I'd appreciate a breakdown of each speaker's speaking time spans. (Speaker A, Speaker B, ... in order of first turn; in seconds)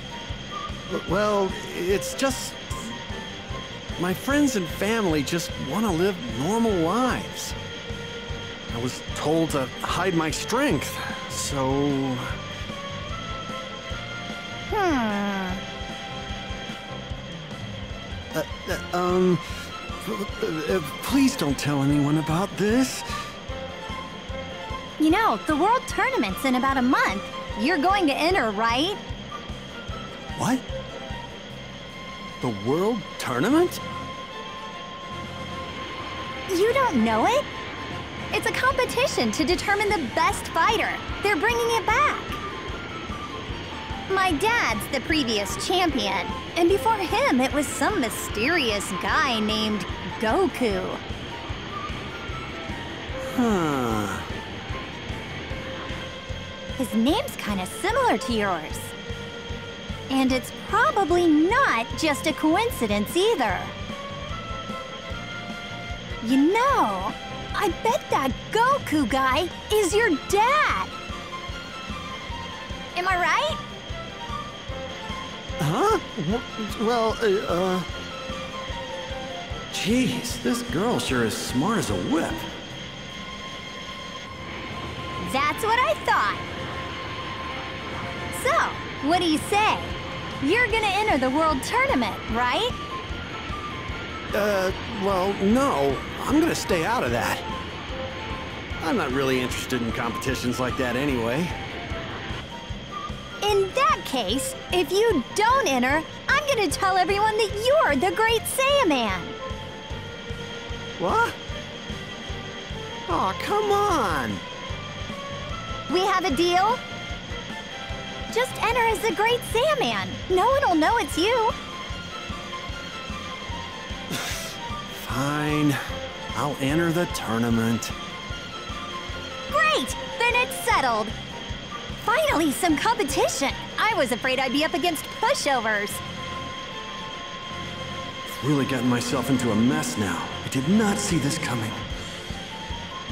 Speaker A: 0.9-3.0, 4.0-7.5, 8.7-12.4, 18.3-23.1, 30.4-30.6, 32.4-33.8, 53.3-54.3, 75.6-77.9, 79.7-82.5, 94.3-97.4, 98.8-101.5, 111.0-111.4, 113.1-114.4, 124.9-125.8, 126.3-127.9, 138.2-141.8
Speaker B: 14.7-15.6, 25.0-29.0, 36.5-37.4, 38.3-42.4, 44.1-51.0, 56.8-58.9, 60.1-63.8, 66.2-70.9, 72.9-73.6, 85.2-86.5, 88.3-92.8, 103.4-109.3, 115.9-116.8, 118.3-121.5, 129.5-131.1, 132.0-136.0